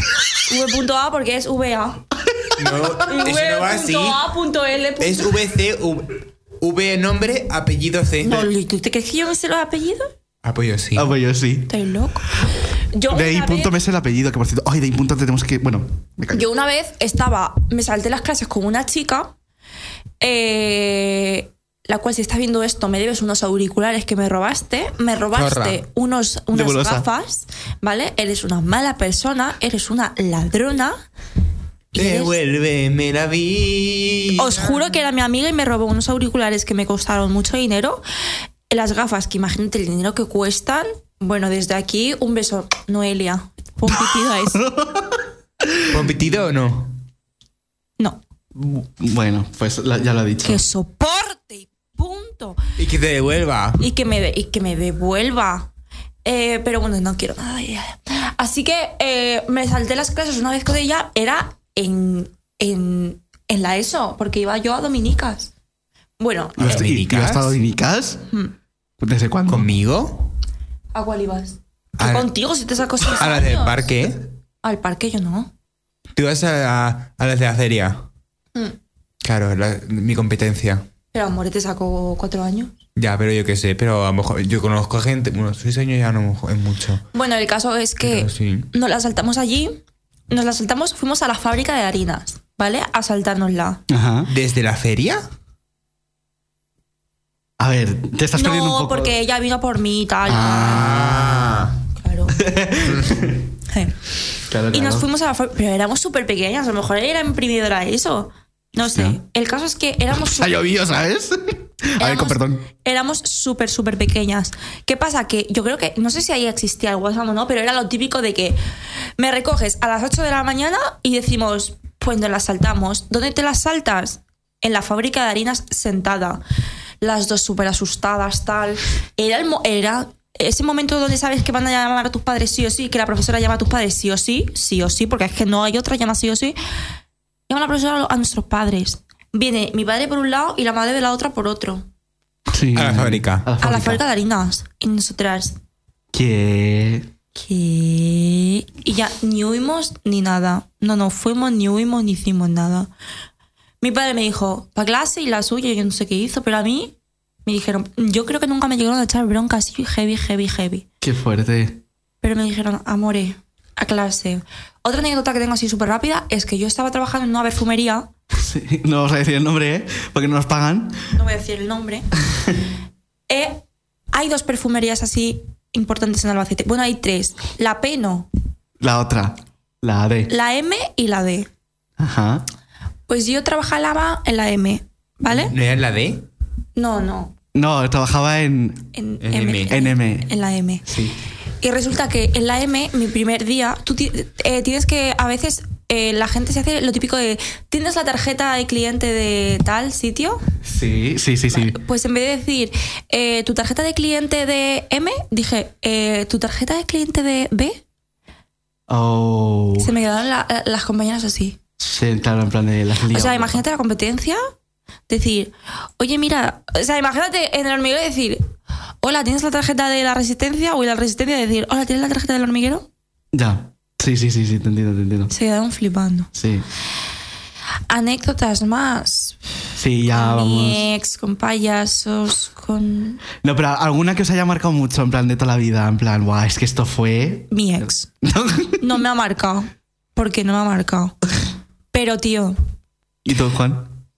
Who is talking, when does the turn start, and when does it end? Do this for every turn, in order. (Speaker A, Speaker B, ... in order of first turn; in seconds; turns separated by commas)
Speaker A: 0.5-2.0, Speaker B: 2.5-4.3, Speaker A: 3.0-5.3, Speaker B: 5.0-8.5, Speaker A: 8.2-10.1, Speaker B: 10.4-11.1, Speaker C: 10.9-11.7, Speaker A: 11.7-12.3, Speaker A: 12.9-13.7, Speaker C: 13.1-16.4, Speaker A: 16.3-19.3, Speaker A: 20.2-31.0, Speaker B: 25.3-25.8, Speaker C: 26.5-27.1, Speaker A: 31.9-32.3, Speaker B: 31.9-34.9, Speaker A: 34.4-38.0, Speaker A: 38.7-44.6, Speaker C: 44.5-45.9, Speaker B: 45.9-47.0, Speaker C: 48.5-50.6, Speaker A: 50.4-52.6, Speaker B: 52.8-53.8, Speaker A: 53.8-55.7, Speaker A: 56.2-65.5, Speaker A: 66.2-66.8, Speaker C: 66.6-68.2, Speaker B: 66.6-67.5, Speaker C: 69.0-69.7, Speaker B: 69.5-70.3, Speaker A: 70.9-73.9, Speaker B: 72.0-72.3, Speaker B: 73.0-74.2, Speaker A: 74.6-75.5, Speaker B: 76.1-78.0, Speaker B: 79.2-80.8, Speaker A: 81.1-82.7, Speaker B: 83.0-87.0, Speaker A: 87.1-93.8, Speaker B: 88.0-88.7, Speaker C: 93.9-94.3, Speaker B: 94.3-95.2, Speaker C: 97.6-99.2, Speaker A: 98.3-101.0, Speaker C: 100.2-101.7, Speaker B: 100.6-101.7, Speaker A: 102.0-102.4, Speaker C: 102.3-103.4, Speaker A: 103.7-103.9, Speaker C: 104.5-105.1, Speaker A: 104.7-110.5, Speaker C: 108.8-109.2, Speaker C: 110.1-112.6, Speaker A: 112.0-118.6, Speaker A: 119.2-126.4, Speaker A: 127.0-136.6, Speaker A: 137.5-141.8, Speaker C: 142.5-144.0, Speaker B: 142.7-143.5, Speaker A: 143.6-145.6, Speaker C: 146.1-147.1, Speaker A: 147.3-152.9, Speaker A: 153.8-160.8, Speaker C: 161.0-161.8, Speaker A: 162.2-168.1, Speaker C: 168.3-171.0, Speaker A: 171.1-172.1, Speaker C: 172.3-172.6, Speaker A: 173.3-178.3, Speaker C: 178.8-180.3, Speaker A: 180.3-181.5, Speaker C: 182.0-182.4, Speaker A: 183.1-185.5, Speaker B: 185.3-186.2, Speaker A: 186.8-187.3, Speaker C: 187.5-188.9, Speaker A: 188.9-190.8, Speaker B: 189.2-189.8, Speaker C: 189.7-190.3, Speaker C: 190.8-191.2, Speaker A: 191.6-200.4, Speaker C: 200.6-201.8, Speaker A: 201.5-207.8, Speaker C: 208.9-209.9, Speaker A: 209.8-211.6, Speaker C: 211.8-213.6, Speaker A: 213.1-214.4, Speaker A: 215.1-218.4, Speaker A: 219.0-222.9, Speaker C: 223.3-225.3, Speaker A: 225.3-226.3, Speaker C: 226.3-226.6, Speaker A: 227.9-229.3, Speaker C: 229.7-230.9, Speaker A: 230.1-233.2, Speaker C: 233.4-237.6, Speaker A: 237.5-238.1, Speaker C: 238.2-238.9, Speaker A: 238.8-241.1, Speaker A: 241.9-242.6, Speaker C: 243.2-243.9